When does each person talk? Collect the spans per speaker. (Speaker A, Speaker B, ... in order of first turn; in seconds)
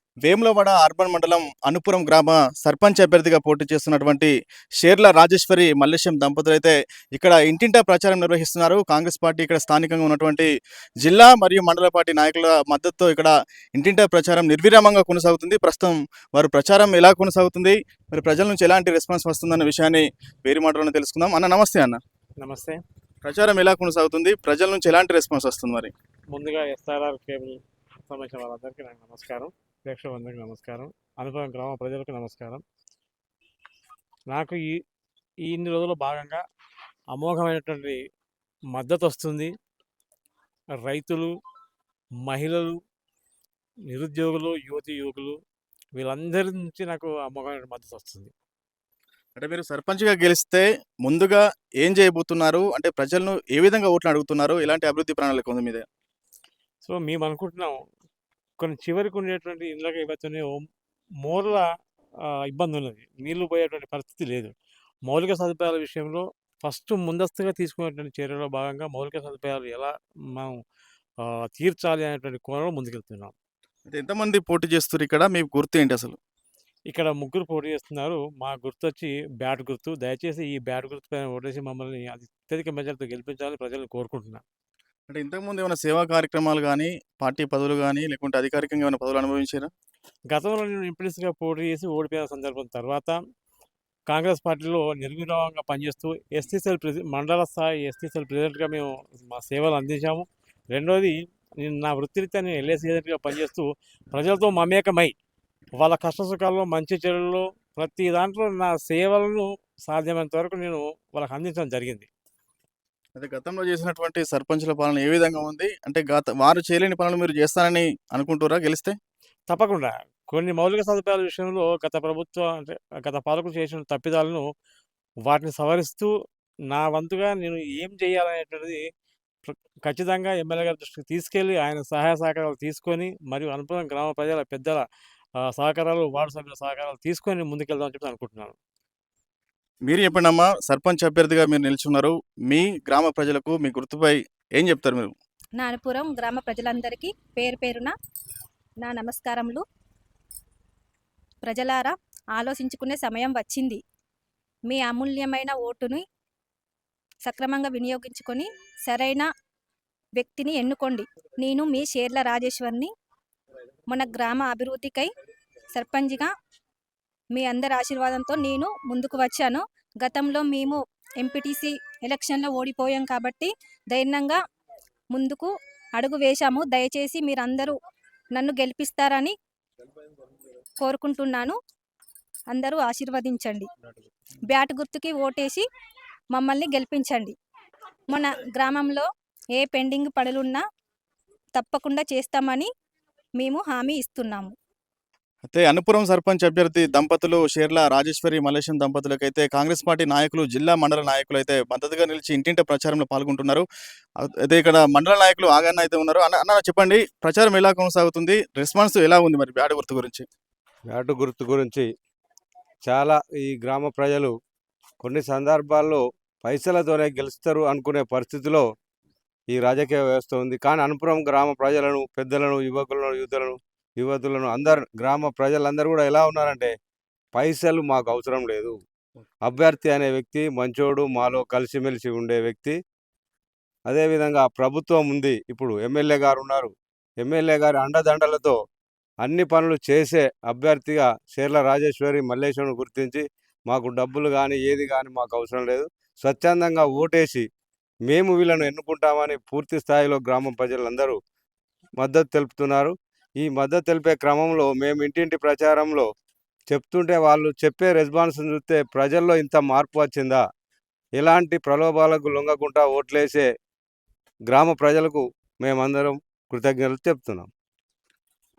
Speaker A: 0.3-10.5, 11.0-22.0, 23.2-25.9, 49.4-55.9, 73.9-76.2, 85.1-89.7, 113.2-119.0, 139.9-145.1, 195.5-203.7, 204.2-210.3
Speaker B: 22.4-22.8, 26.3-32.6, 34.3-34.8, 35.5-36.4, 37.1-38.0, 38.7-39.5, 40.8-41.3, 42.3-42.8, 43.9-45.4, 46.0-48.3, 56.8-57.8, 58.6-60.6, 61.2-61.7, 62.5-64.5, 65.1-70.5, 71.2-73.3, 76.9-84.4, 90.3-93.2, 94.1-105.1, 105.8-112.1, 119.5-124.4, 125.3-126.1, 126.7-128.8, 129.5-134.8, 135.5-138.6
Speaker C: 145.6-147.9, 148.8-149.6, 151.4-153.8, 154.7-156.0, 157.2-159.3, 160.2-162.9, 163.9-165.1, 165.7-166.3, 167.3-174.4, 175.1-177.8, 178.3-179.3, 180.8-181.6, 182.5-183.7, 184.5-185.7, 186.3-187.3, 188.1-190.6, 191.6-192.7, 193.4-194.6
Speaker D: 210.9-211.9, 212.8-214.3, 215.0-218.7, 219.5-226.7, 227.3-228.8, 229.4-232.8, 233.9-238.6, 239.2-247.5, 248.1-251.2, 252.0-256.1, 256.7-260.4, 261.2-263.5, 264.5-267.5